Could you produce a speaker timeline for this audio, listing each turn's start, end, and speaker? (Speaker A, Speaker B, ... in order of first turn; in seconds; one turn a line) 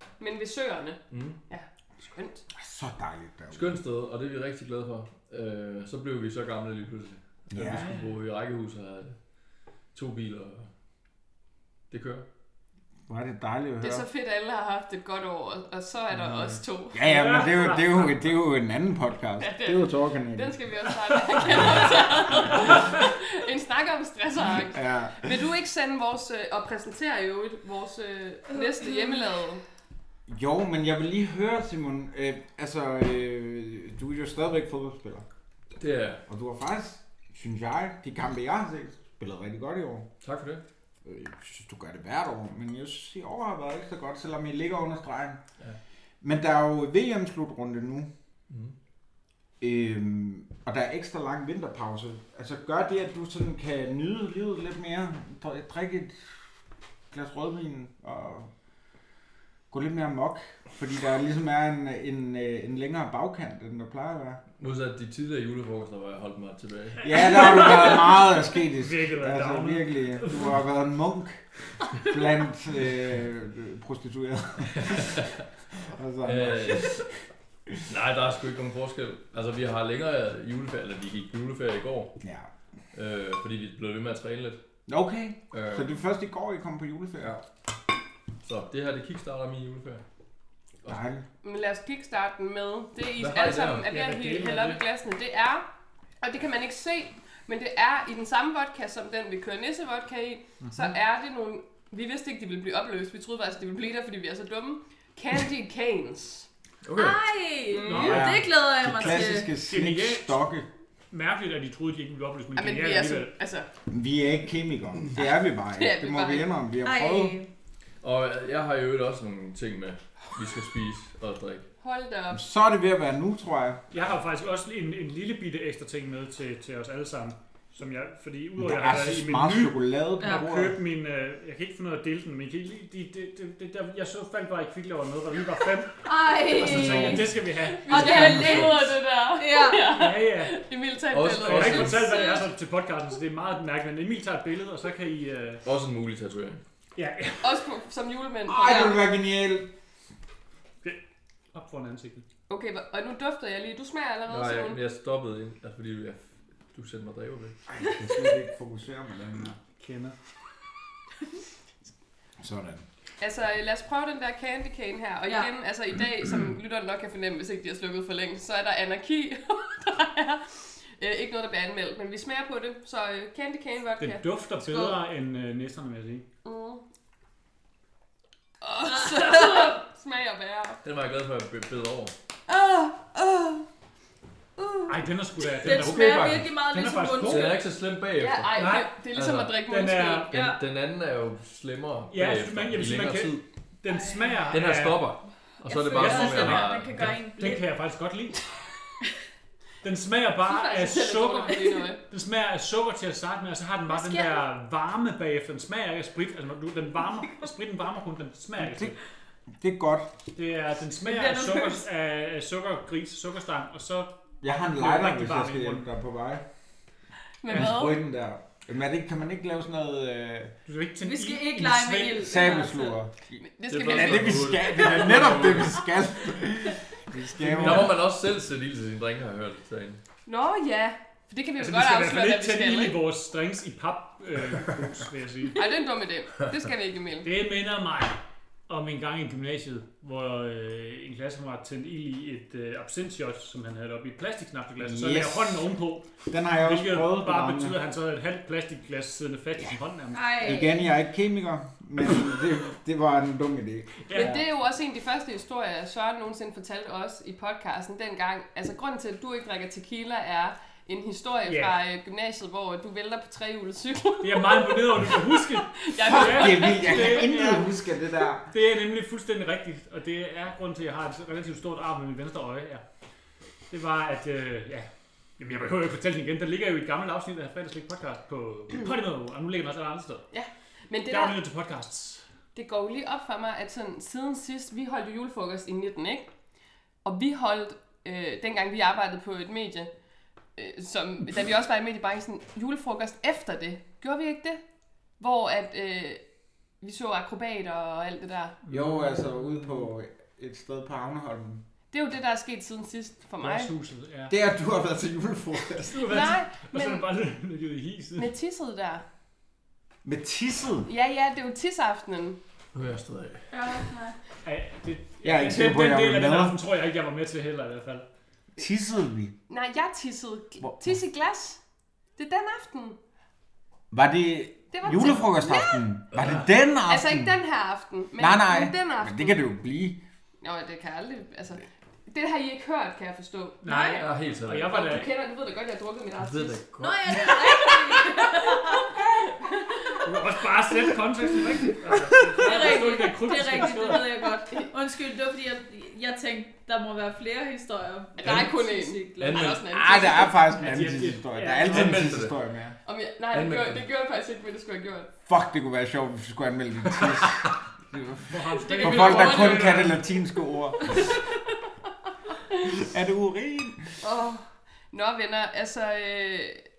Speaker A: 0.2-2.5
Speaker B: 1.1-1.4
Speaker C: 2.6-3.8
Speaker B: 3.5-9.2
Speaker C: 7.5-7.9
Speaker D: 7.7-8.1
Speaker B: 9.9-10.7
Speaker B: 11.9-12.2
Speaker C: 13.1-14.1
Speaker A: 13.8-17.1
Speaker C: 16.9-20.6
Speaker D: 17.1-18.1
Speaker A: 19.4-29.6
Speaker D: 21.4-22.0
Speaker C: 24.7-25.4
Speaker E: 28.5-29.4
Speaker C: 30.3-35.2
Speaker B: 35.8-36.2
Speaker C: 36.3-40.1
Speaker B: 40.2-40.6
Speaker C: 41.0-45.4
Speaker C: 46.2-48.1
Speaker B: 48.5-48.8
Speaker C: 49.6-56.3
Speaker C: 57.1-58.5
Speaker C: 59.7-64.4
Speaker B: 64.6-67.4
Speaker C: 67.0-71.4
Speaker D: 67.1-70.6
Speaker C: 71.9-77.1
Speaker B: 74.8-75.4
Speaker B: 76.2-77.0
Speaker B: 77.9-82.1
Speaker C: 82.2-82.5
Speaker B: 82.9-84.6
Speaker C: 84.9-87.4
Speaker B: 85.5-86.0
Speaker B: 88.4-90.0
Speaker C: 90.8-91.3
Speaker A: 91.4-95.7
Speaker B: 93.2-93.8
Speaker D: 93.8-94.8
Speaker A: 96.2-106.5
Speaker D: 100.6-100.9
Speaker B: 106.8-107.2
Speaker E: 106.9-109.5
Speaker A: 107.7-108.3
Speaker D: 107.8-108.3
Speaker C: 108.0-110.7
Speaker D: 109.2-110.4
Speaker D: 111.1-113.3
Speaker A: 112.6-113.7
Speaker C: 113.9-117.3
Speaker A: 115.2-116.5
Speaker E: 116.8-117.5
Speaker B: 118.0-121.7
Speaker A: 121.8-122.4
Speaker C: 122.3-123.8
Speaker D: 123.9-138.6
Speaker C: 128.6-130.8
Speaker E: 130.2-130.4
Speaker E: 136.0-137.3
Speaker B: 136.6-137.4
Speaker A: 137.8-142.5
Speaker E: 137.9-139.9
Speaker C: 138.0-138.6
Speaker D: 139.9-140.6
Speaker B: 141.1-142.2
Speaker D: 141.4-145.6
Speaker B: 145.7-146.6
Speaker D: 147.0-147.7
Speaker A: 147.4-149.0
Speaker C: 148.5-149.7
Speaker D: 151.5-152.2
Speaker A: 152.5-154.8
Speaker B: 154.3-157.6
Speaker C: 157.7-159.6
Speaker D: 159.8-160.2
Speaker C: 162.4-162.8
Speaker A: 163.2-174.2
Speaker E: 165.3-165.5
Speaker D: 174.0-176.2
Speaker E: 174.6-175.0
Speaker A: 176.4-176.8
Speaker A: 178.6-180.8
Speaker E: 178.8-179.8
Speaker B: 180.8-182.1
Speaker E: 182.5-183.6
Speaker D: 184.9-187.6
Speaker E: 185.6-187.6
Speaker B: 185.6-186.6
Speaker B: 187.1-188.6
Speaker A: 188.2-190.6
Speaker D: 188.6-188.9
Speaker B: 189.1-189.6
Speaker D: 189.7-190.3
Speaker B: 190.3-193.4
Speaker D: 192.1-195.1
Speaker E: 193.9-194.4
Speaker B: 194.5-197.3
Speaker E: 195.6-197.6
Speaker D: 195.9-198.4
Speaker D: 199.8-209.0
Speaker A: 200.4-202.0
Speaker E: 203.9-204.5
Speaker C: 208.6-208.9
Speaker C: 209.6-210.1
Speaker D: 210.3-214.1
Speaker E: 211.0-211.9
Speaker C: 214.4-216.4
Speaker D: 214.7-215.8
Speaker A: 217.4-218.0
Speaker C: 217.5-220.5
Speaker D: 220.7-222.5
Speaker E: 221.0-223.0
Speaker C: 222.2-228.0
Speaker A: 223.4-225.4
Speaker B: 223.7-225.9
Speaker D: 227.4-227.9
Speaker B: 227.5-230.0
Speaker A: 230.3-233.0
Speaker D: 231.6-235.6
Speaker A: 235.6-237.3
Speaker D: 237.2-250.5
Speaker C: 244.8-245.7
Speaker C: 246.3-247.8
Speaker E: 250.1-250.9
Speaker C: 250.4-254.4
Speaker D: 254.1-254.4
Speaker A: 254.1-267.4
Speaker D: 261.5-261.8
Speaker D: 264.2-267.7
Speaker C: 266.0-268.5
Speaker D: 268.5-272.8
Speaker D: 273.7-274.9
Speaker D: 275.4-280.3
Speaker A: 280.3-281.4
Speaker D: 281.1-282.2
Speaker A: 282.6-286.3
Speaker A: 287.0-289.9
Speaker A: 290.6-294.6
Speaker A: 295.2-296.2
Speaker A: 296.8-298.6
Speaker D: 298.6-299.9
Speaker C: 298.7-301.6
Speaker A: 301.9-303.7
Speaker D: 303.4-304.4
Speaker C: 304.3-306.3
Speaker D: 305.9-308.3
Speaker A: 306.1-307.1
Speaker A: 308.2-309.1
Speaker C: 310.0-310.9
Speaker A: 310.9-312.4
Speaker B: 312.7-313.4
Speaker E: 313.5-314.2
Speaker D: 314.4-318.1
Speaker C: 315.2-316.6
Speaker C: 318.6-319.3
Speaker A: 319.5-321.6
Speaker A: 322.2-323.0
Speaker C: 323.9-327.4
Speaker A: 324.7-325.8
Speaker B: 326.1-326.5
Speaker A: 326.9-329.4
Speaker C: 328.2-330.0
Speaker A: 330.4-333.6
Speaker D: 333.6-335.1
Speaker E: 333.6-334.1
Speaker B: 333.9-335.0
Speaker A: 334.7-336.6
Speaker B: 336.2-337.3
Speaker E: 336.8-339.1
Speaker A: 337.2-340.0
Speaker D: 340.0-344.3
Speaker E: 342.4-349.6
Speaker A: 348.2-350.5
Speaker B: 349.2-349.6
Speaker C: 349.7-352.8
Speaker D: 350.6-352.1
Speaker B: 351.6-352.4
Speaker A: 352.9-355.1
Speaker B: 353.3-353.9
Speaker C: 355.3-361.1
Speaker B: 356.9-357.5
Speaker D: 358.3-360.1
Speaker A: 358.6-360.0
Speaker C: 362.8-363.9
Speaker A: 364.0-366.6